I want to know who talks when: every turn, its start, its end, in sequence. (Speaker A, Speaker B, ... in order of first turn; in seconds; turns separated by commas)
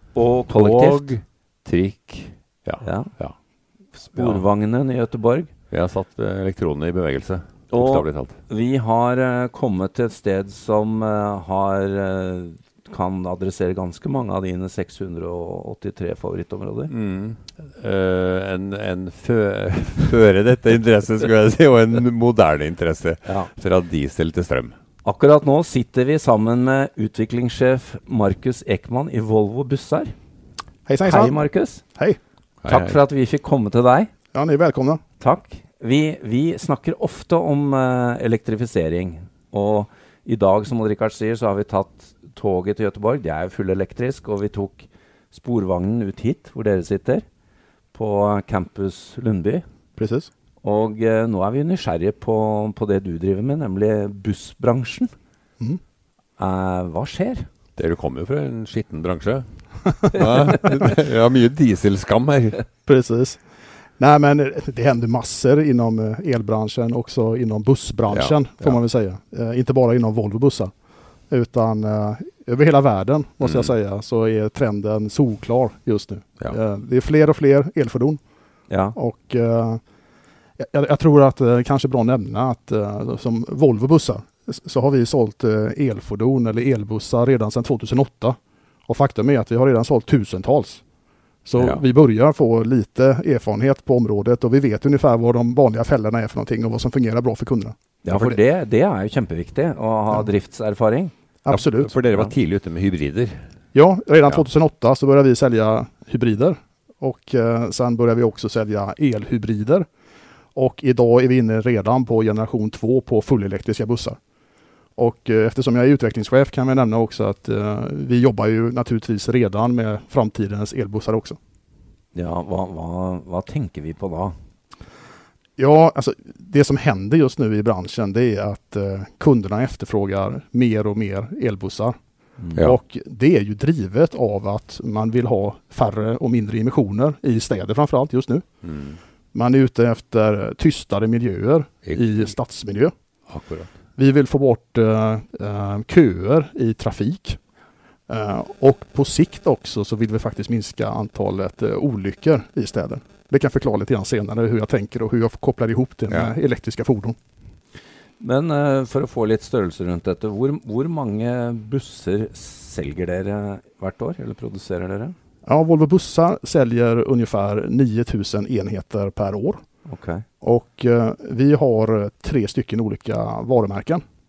Speaker A: 0.1-1.1, Speaker B: 0.5-3.4, Speaker A: 2.8-3.1, Speaker A: 4.0-5.5, Speaker B: 4.1-4.5, Speaker B: 5.7-8.4, Speaker A: 7.7-16.9, Speaker B: 16.9-24.8, Speaker A: 23.2-23.5, Speaker A: 25.0-30.1, Speaker C: 30.9-31.4, Speaker A: 31.1-31.8, Speaker B: 32.6-33.0, Speaker A: 32.7-34.1, Speaker C: 34.3-35.0, Speaker A: 35.2-47.2, Speaker A: 47.9-49.6, Speaker C: 50.0-50.3, Speaker A: 50.6-55.1, Speaker A: 56.4-57.5, Speaker B: 57.8-59.5, Speaker B: 60.1-62.6, Speaker C: 62.9-63.4, Speaker C: 64.0-70.7, Speaker B: 68.1-68.8, Speaker C: 71.3-78.2, Speaker B: 73.4-73.7, Speaker A: 78.7-79.0, Speaker C: 79.0-79.8, Speaker C: 80.6-90.8, Speaker C: 91.5-97.8, Speaker B: 91.6-91.8, Speaker A: 98.0-101.1, Speaker C: 101.5-102.0, Speaker B: 101.5-103.4, Speaker C: 103.7-109.9, Speaker C: 110.5-114.2, Speaker C: 115.0-121.4, Speaker A: 122.2-124.3, Speaker C: 125.6-132.0, Speaker A: 132.4-132.7, Speaker C: 132.6-138.4, Speaker B: 138.6-139.0, Speaker C: 139.3-142.9, Speaker B: 141.9-142.2, Speaker B: 143.3-143.8, Speaker C: 144.0-147.4, Speaker C: 148.1-157.2, Speaker B: 156.1-156.3, Speaker A: 158.2-165.2, Speaker C: 165.5-169.6, Speaker A: 169.9-170.2, Speaker C: 170.4-174.0